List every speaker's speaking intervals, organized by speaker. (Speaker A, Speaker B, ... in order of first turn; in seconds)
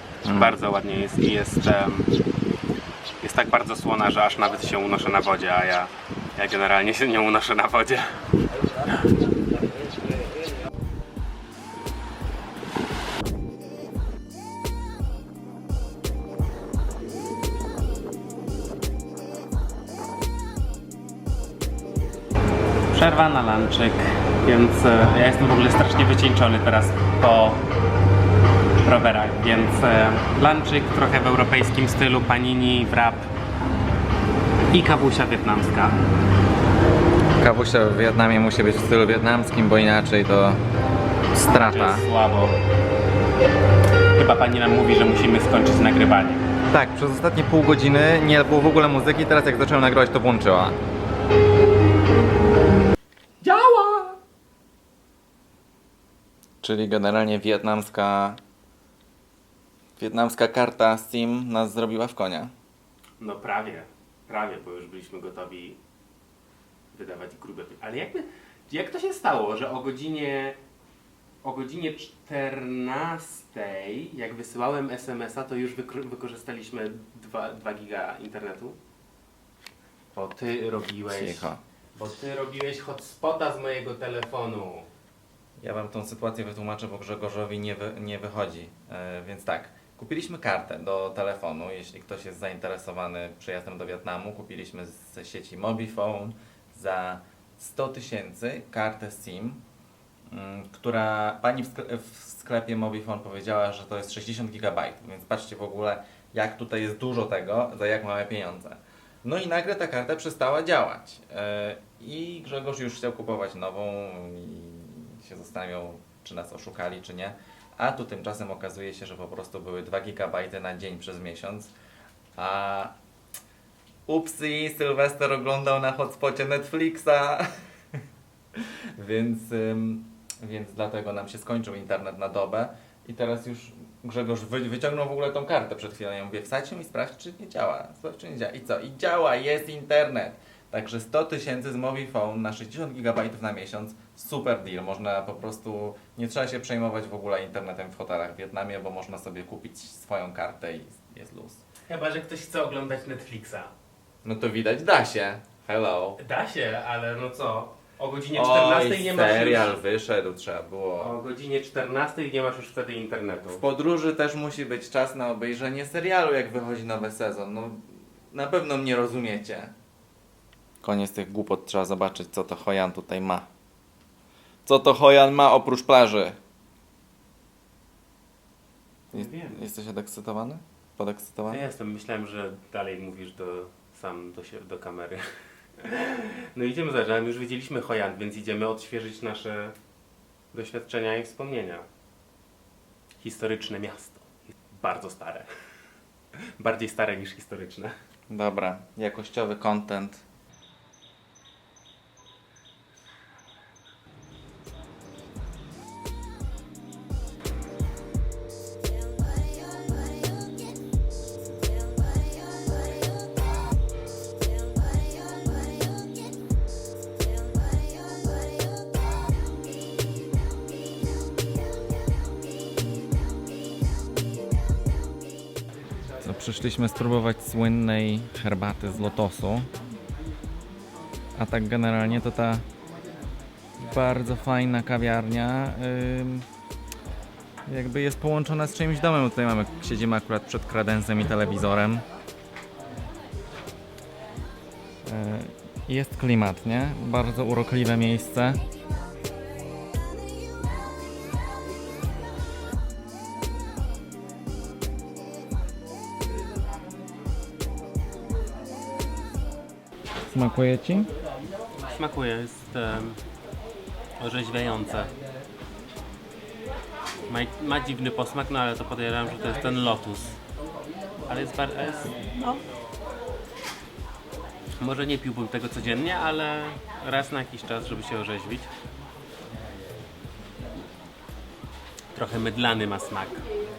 Speaker A: 0.2-0.6, 37.4-40.6, 41.3-42.0, 46.7-50.8, 56.6-58.4, 60.0-62.5, 81.1-81.6, 85.6-99.6, 100.3-121.7, 122.3-122.9, 124.1-127.5, 128.6-151.6, 154.2-156.2, 158.3-161.2, 163.5-169.7, 170.8-173.5, 174.7-176.4, 179.1-181.6, 198.3-200.2, 226.2-229.7, 231.4-232.6, 233.8-236.4, 237.7-242.1, 245.1-248.6, 260.2-261.1
Speaker B: 0.3-2.1, 3.2-8.2, 22.9-27.6, 28.8-33.3, 34.7-36.1, 41.4-42.6, 44.1-46.5, 53.4-54.1, 63.2-65.8, 66.9-70.6, 71.4-78.8, 80.1-84.9, 151.9-153.7, 156.2-159.8, 161.0-163.6, 179.1-179.5, 181.5-185.2, 185.8-189.7, 190.5-191.8, 193.2-195.5, 196.6-197.9, 261.9-263.2, 264.2-265.1, 267.3-270.4, 271.3-272.6, 274.8-278.7, 282.1-283.4